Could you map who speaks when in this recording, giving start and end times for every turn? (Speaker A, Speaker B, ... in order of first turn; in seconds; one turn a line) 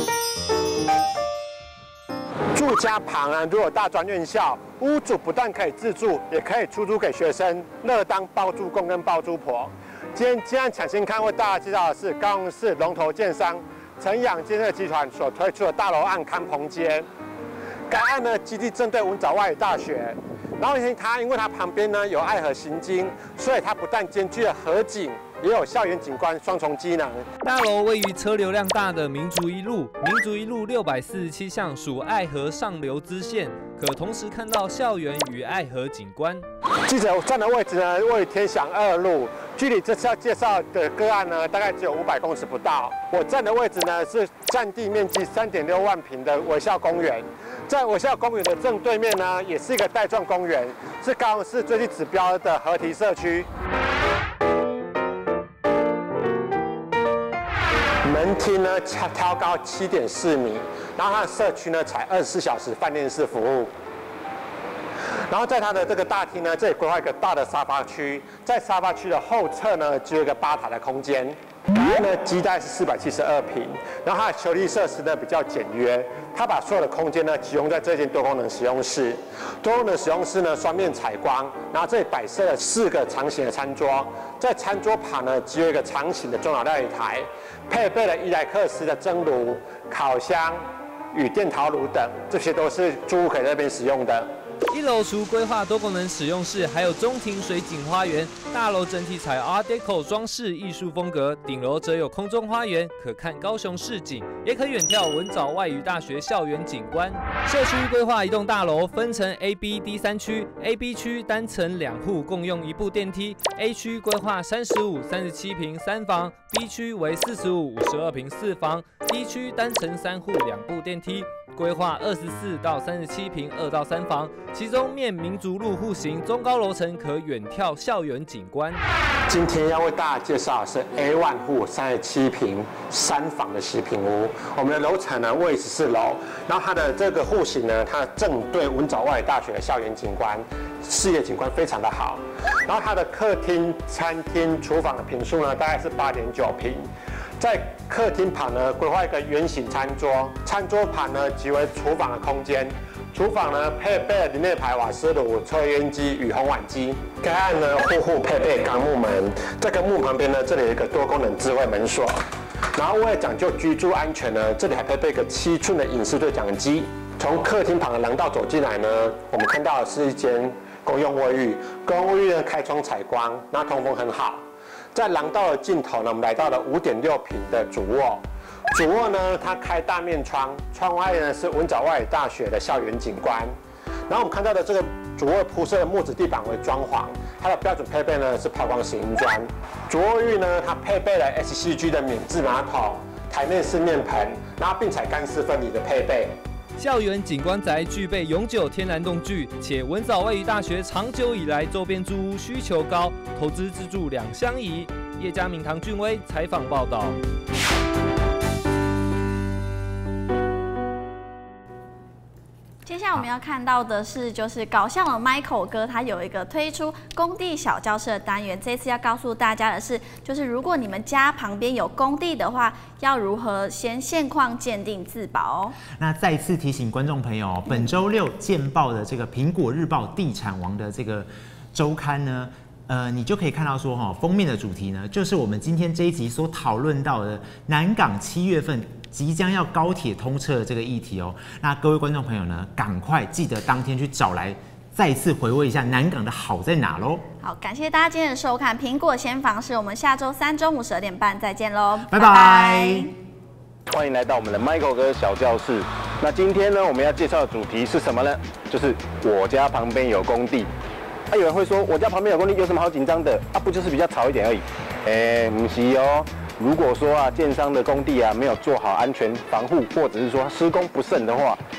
Speaker A: 2.5-17.1
Speaker A: 17.9-27.2
Speaker B: 27.4-36.5
Speaker A: 36.9-53.5
Speaker A: 58.0-63.7
Speaker A: 65.3-94.3
Speaker B: 94.7-128.8
Speaker A: 129.3-146.8
Speaker A: 147.4-162.2
Speaker A: 162.8-174.4
Speaker A: 174.9-183.5
Speaker A: 184.1-196.3
Speaker B: 196.8-207.2
Speaker C: 212.8-225.8
Speaker D: 225.9-247.2
Speaker C: 247.4-253.1
Speaker D: 252.1-253.1
Speaker E: 253.8-260.7
Speaker E: 261.3-271.6